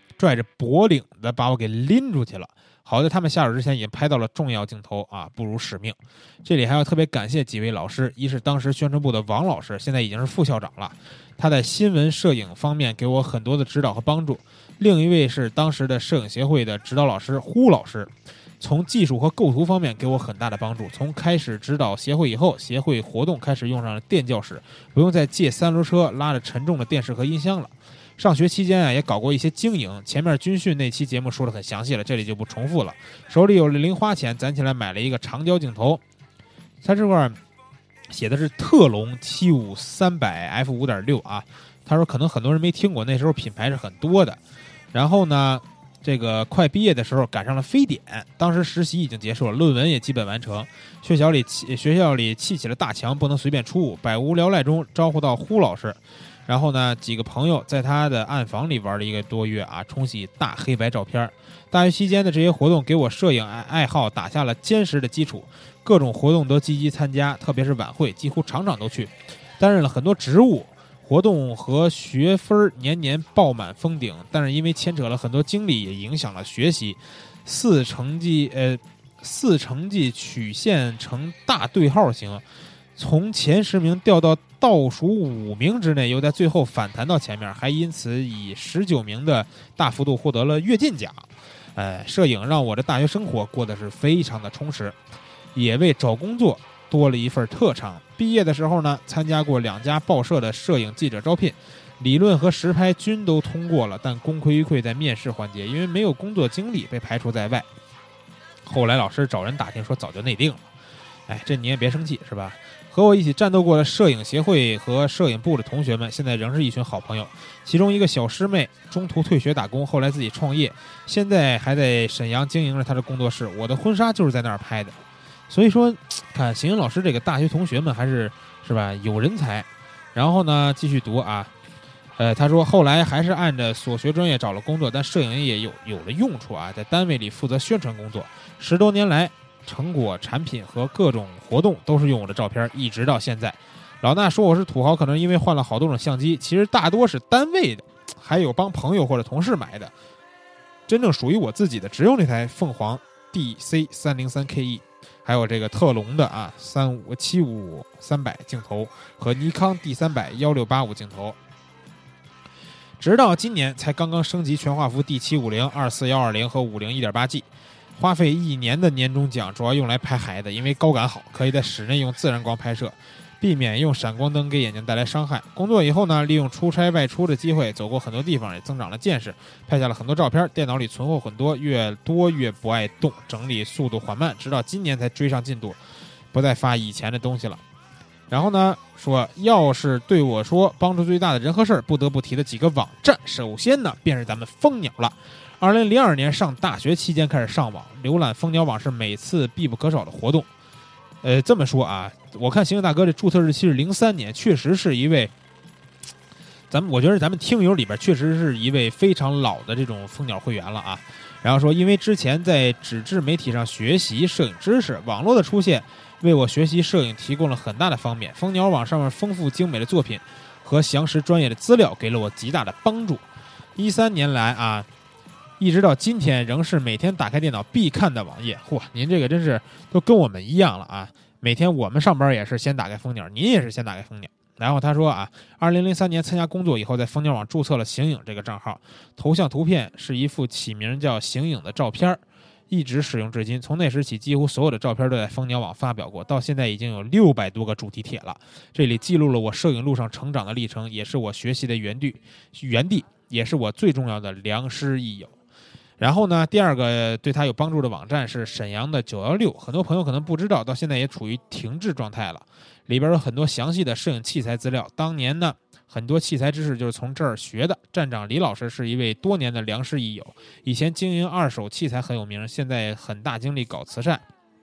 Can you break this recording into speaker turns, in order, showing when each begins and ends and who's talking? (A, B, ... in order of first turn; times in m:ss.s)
0:00.2-0:36.0 A
0:36.8-0:37.4 A
0:38.1-0:44.4 A
0:44.9-1:22.4 A
1:23.0-1:35.0 A
1:35.5-1:47.7 A
1:48.6-1:50.7 A
1:51.3-2:05.0 A
2:05.5-2:11.5 A
2:12.2-2:29.9 A
2:30.9-2:41.4 A
2:43.0-2:47.4 A
2:48.0-3:05.8 A
3:06.3-3:07.6 A
3:08.3-3:20.5 A
3:21.2-3:25.3 A
3:26.7-3:43.2 A
3:43.8-3:44.9 A
3:45.6-4:15.3 A
4:16.0-4:34.2 A